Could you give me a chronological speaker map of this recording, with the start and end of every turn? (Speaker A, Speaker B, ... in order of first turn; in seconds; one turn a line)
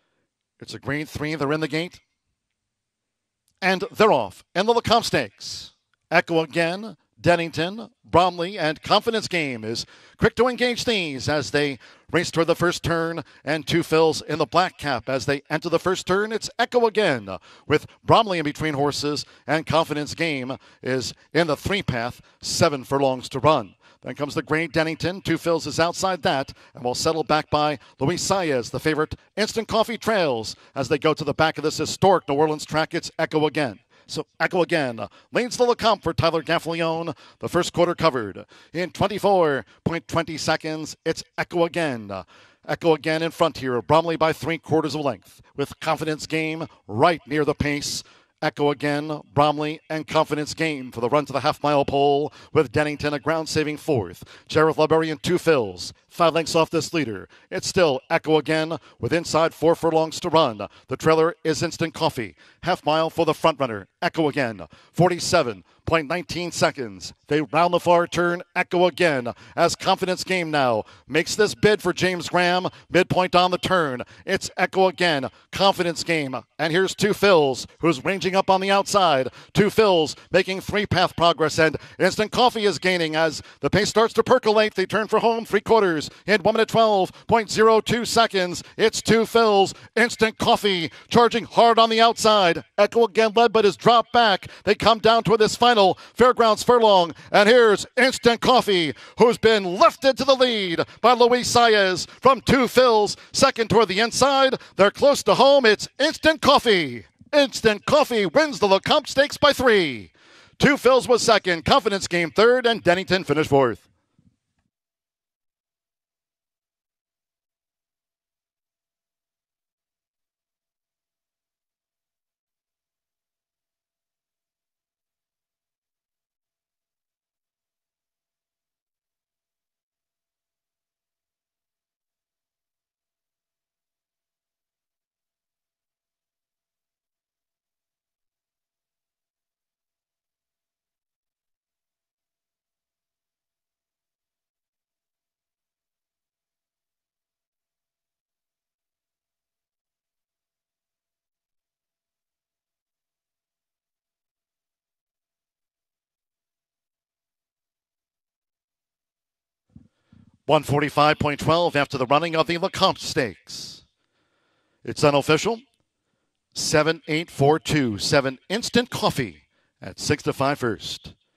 Speaker A: 0.6-2.0
Speaker A: 3.6-113.9
Speaker A: 160.5-163.8
Speaker A: 164.8-165.6
Speaker A: 166.5-171.1